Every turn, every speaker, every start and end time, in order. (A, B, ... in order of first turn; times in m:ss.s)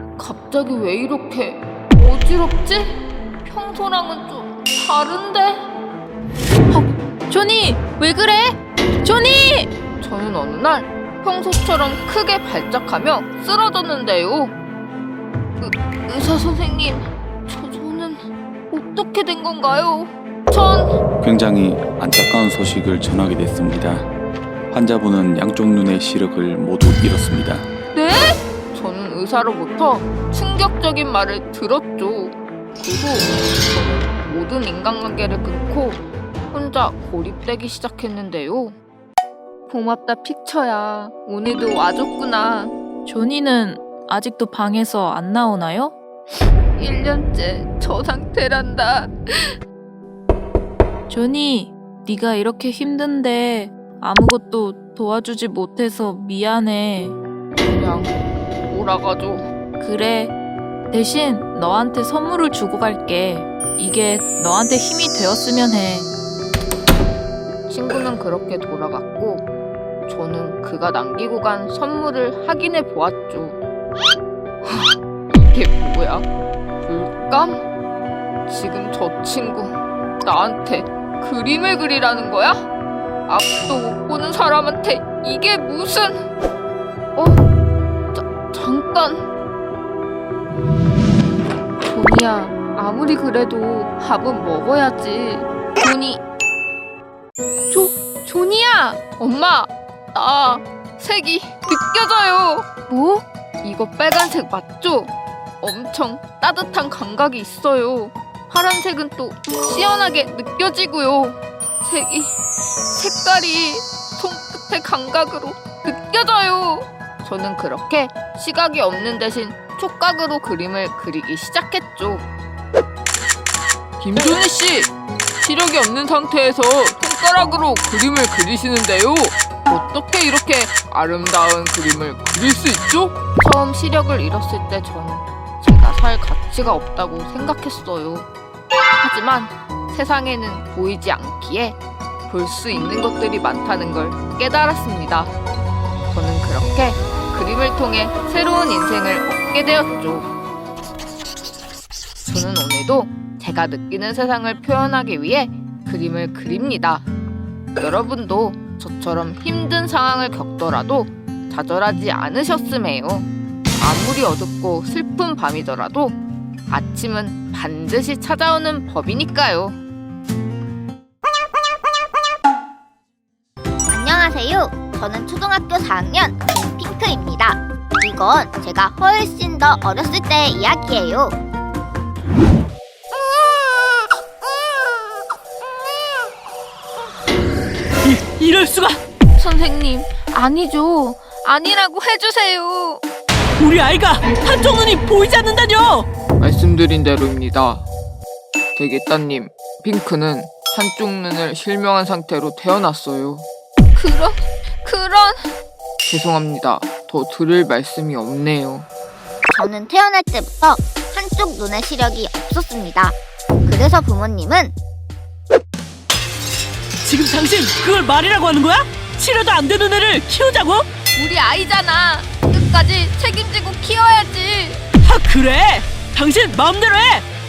0:00.2-0:05.6 A
0:06.7-0:09.7 B
0:10.0-0:14.6 A
0:15.6-0:21.0 A
0:21.2-0:24.1 C
0:24.7-0:27.7 C
0:27.9-0:33.4 A
0:34.1-0:38.8 A
0:39.7-0:42.7 A
0:43.1-0:46.0 B
0:46.8-0:49.5 A
0:51.1-0:57.2 B
0:57.6-0:58.1 A
0:58.7-0:59.5 A
0:59.8-1:00.3 B
1:00.9-1:06.1 B
1:07.7-1:09.4 A
1:10.1-1:13.6 A
1:14.6-1:15.0 A
1:15.5-1:16.3 A
1:16.8-1:17.6 A
1:18.5-1:22.7 A
1:23.3-1:26.3 A
1:27.2-1:27.4 A
1:28.1-1:29.3 A
1:31.8-1:36.2 A
1:37.7-1:52.4 A
1:53.0-2:02.2 A
2:04.0-2:18.3 A
2:19.0-2:21.8 A
2:22.3-2:25.3 A
2:26.1-2:30.3 A
2:32.3-2:37.0 A
2:37.8-2:46.2 A
2:46.7-2:49.8 A
2:53.9-3:01.3 D
3:08.0-3:09.0 E
3:09.4-3:13.0 A
3:13.6-3:16.1 E
3:16.4-3:17.8 A
3:18.8-3:25.5 A
3:26.0-3:28.9 A
3:29.5-3:33.2 D
3:33.7-3:34.7 D
3:37.0-3:40.9 E
3:41.1-3:44.8 A
3:45.0-3:47.2 E